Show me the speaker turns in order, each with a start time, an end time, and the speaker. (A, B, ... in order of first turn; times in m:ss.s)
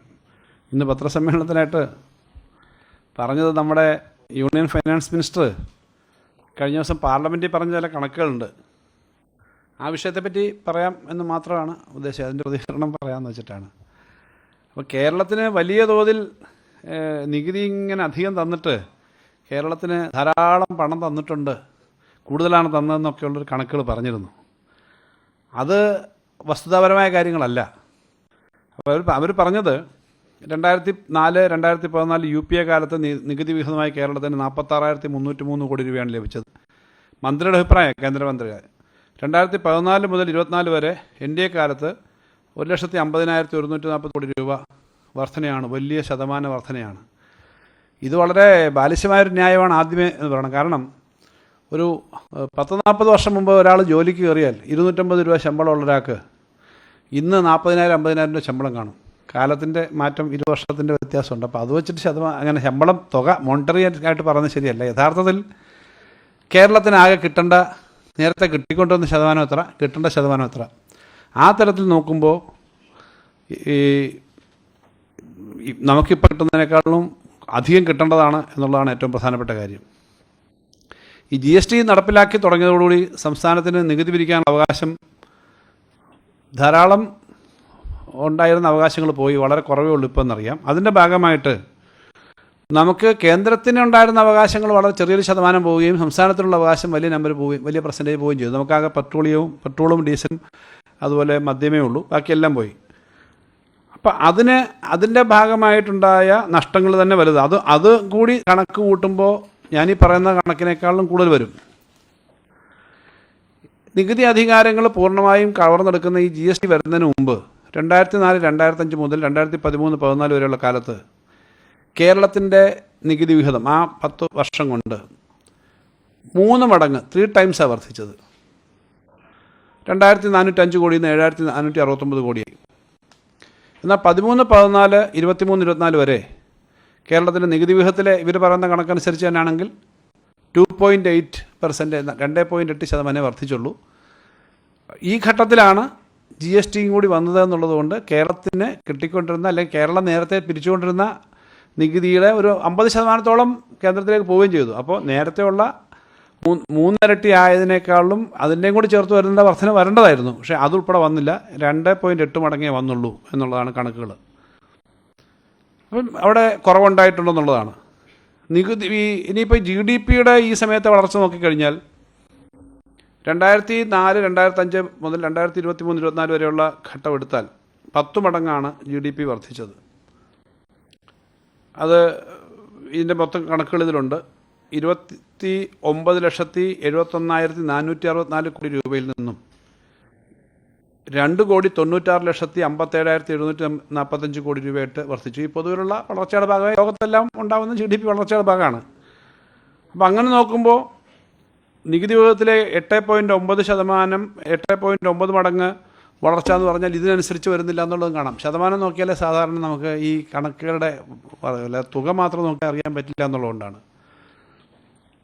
0:00.7-0:01.8 A
0:03.2-0:05.5 A
0:06.6-0:08.5 A
0:09.8-0:13.7 A
0:14.8-0:16.2 A
0:16.9-0:18.8 A
0:19.5-0:21.6 A
0:22.3-0:24.3 A
0:26.5-0:27.6 A
0:28.8-0:29.8 A
0:30.5-0:36.5 A
0:37.2-0:38.6 A
0:39.2-0:41.9 A
0:42.6-0:44.6 A
0:45.2-0:47.0 A
0:48.0-0:50.8 A
0:51.7-0:56.2 A
0:57.2-1:05.4 A
1:06.5-1:07.6 A
1:08.2-1:10.7 A
1:11.4-1:12.4 A
1:13.5-1:14.2 A
1:15.7-1:19.8 A
1:21.3-1:24.9 A
1:26.6-1:27.0 A
1:28.2-1:31.6 A
1:32.7-1:40.4 A
1:41.0-1:42.7 A
1:43.9-1:51.5 A
1:54.0-2:01.0 A
2:02.0-2:05.0 A
2:06.4-2:08.1 A
2:09.9-2:12.5 A
2:13.8-2:16.2 A
2:17.1-2:19.7 A
2:20.5-2:23.7 A
2:25.1-2:25.8 A
2:26.4-2:31.1 A
2:31.8-2:35.7 A
2:36.4-2:44.2 A
2:45.9-2:47.7 A
2:48.5-2:51.8 A
2:53.2-2:59.8 A
3:01.8-3:02.4 A
3:02.9-3:04.2 A
3:04.7-3:09.4 A
3:11.1-3:18.8 A
3:20.0-3:20.8 A
3:21.9-3:25.7 A
3:26.2-3:33.8 A